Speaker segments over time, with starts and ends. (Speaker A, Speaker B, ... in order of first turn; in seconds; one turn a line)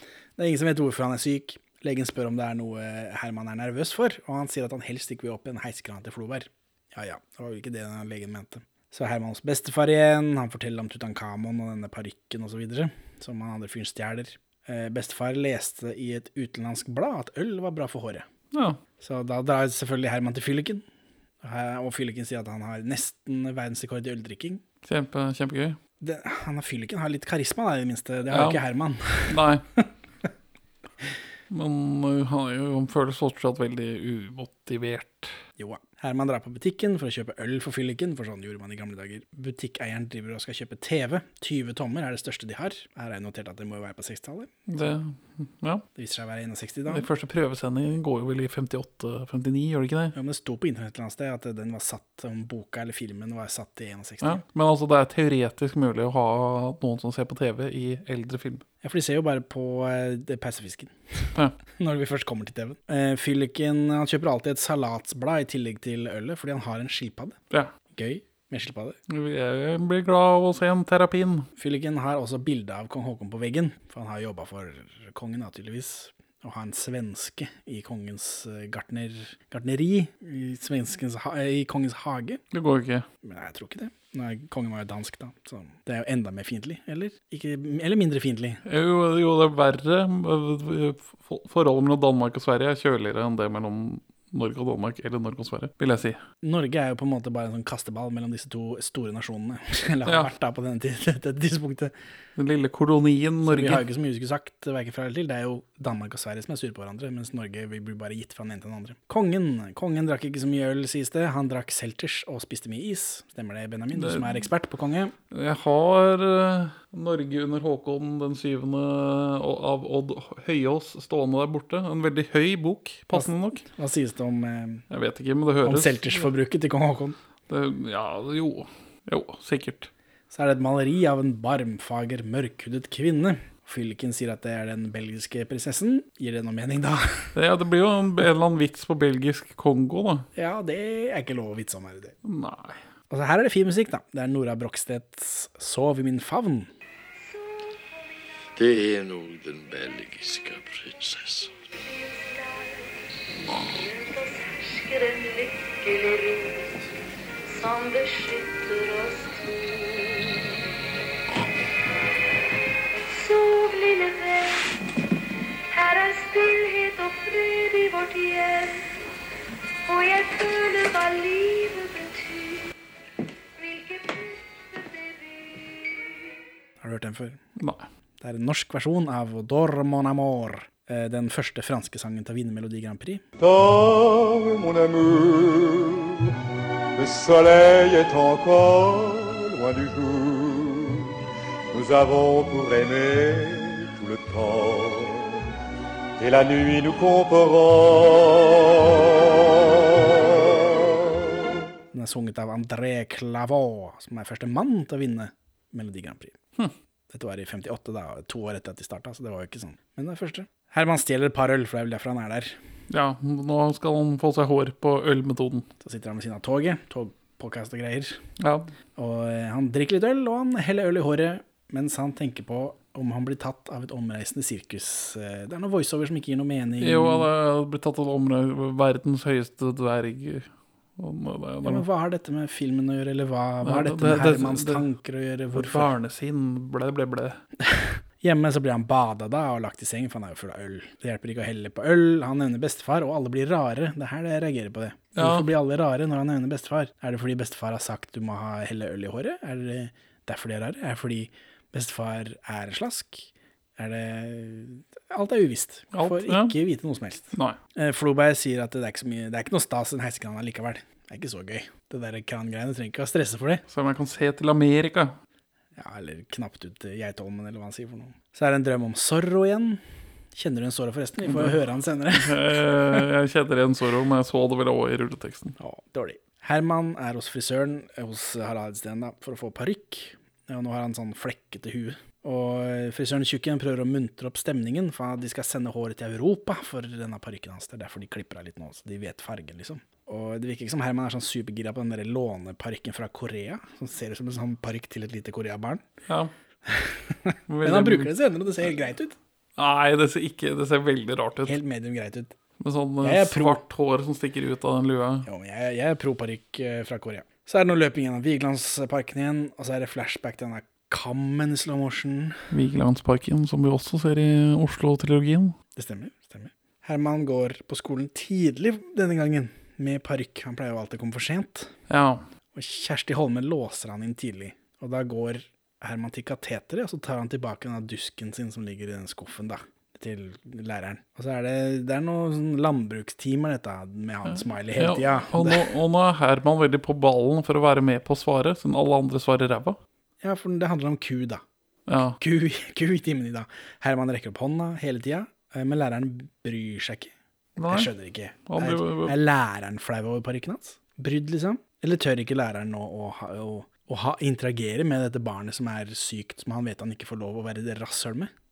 Speaker A: 0.4-18.2
Speaker B: 18.5-18.8
Speaker A: 19.0-20.8
Speaker A: 21.4-24.6
Speaker B: 24.8-25.8
Speaker A: 26.0-29.9
Speaker B: 28.3-28.6
Speaker B: 29.3-29.6
Speaker B: 31.5-35.4
Speaker A: 35.6-44.5
Speaker B: 44.7-45.8
Speaker A: 45.9-47.1
Speaker B: 46.9-50.1
Speaker A: 50.1-54.4
Speaker B: 54.2-58.6
Speaker A: 58.8-67.4
Speaker A: 67.9-69.0
Speaker B: 69.1-71.5
Speaker A: 71.6-82.4
Speaker B: 82.5-83.1
Speaker A: 83.2-88.6
Speaker B: 88.6-96.2
Speaker A: 96.4-101.9
Speaker B: 100.0-100.3
Speaker B: 102.3-103.8
Speaker A: 103.4-115.1
Speaker B: 113.9-114.4
Speaker B: 115.3-123.6
Speaker A: 123.1-124.8
Speaker B: 124.9-126.2
Speaker A: 125.6-127.2
Speaker B: 127.5-129.9
Speaker A: 130.3-137.3
Speaker B: 137.3-140.3
Speaker A: 140.3-142.2
Speaker B: 142.2-142.8
Speaker A: 143.1-146.7
Speaker C: 147.2-148.2
Speaker D: 148.6-151.5
Speaker C: 151.7-156.8
Speaker C: 157.4-160.6
Speaker C: 162.9-164.8
Speaker C: 165.7-169.0
Speaker C: 169.8-172.6
Speaker C: 173.6-175.9
Speaker A: 176.8-177.4
Speaker B: 177.6-177.8
Speaker A: 178.2-183.2
Speaker D: 183.4-185.0
Speaker E: 183.4-185.7
Speaker D: 187.0-190.5
Speaker E: 187.1-190.7
Speaker D: 191.7-195.1
Speaker E: 191.8-194.9
Speaker D: 196.2-198.1
Speaker E: 196.2-198.1
Speaker A: 201.9-206.4
Speaker A: 207.1-212.6
Speaker B: 212.9-215.7
Speaker A: 215.8-218.2
Speaker B: 218.4-218.7
Speaker A: 218.9-227.3
Speaker B: 226.8-231.8
Speaker A: 231.6-235.9
Speaker B: 233.6-234.8
Speaker B: 235.5-237.4
Speaker A: 237.6-263.6
Speaker B: 245.2-245.5
Speaker B: 255.9-256.6
Speaker B: 263.7-265.2
Speaker A: 265.8-269.8
Speaker A: 270.3-273.0
Speaker B: 271.2-271.6
Speaker B: 272.1-275.5
Speaker A: 275.6-295.8
Speaker B: 296.1-296.3
Speaker A: 296.6-299.2
Speaker B: 297.5-298.1
Speaker B: 299.6-301.6
Speaker A: 301.4-302.3
Speaker B: 302.6-305.3
Speaker A: 303.0-303.6
Speaker A: 305.2-312.4
Speaker B: 312.5-315.6
Speaker A: 315.8-321.7
Speaker B: 321.9-322.2
Speaker A: 322.5-335.7
Speaker B: 334.3-339.8
Speaker A: 340.2-341.4
Speaker B: 341.9-342.2
Speaker A: 342.2-347.1
Speaker B: 347.6-347.9
Speaker A: 347.6-358.3
Speaker B: 348.5-349.1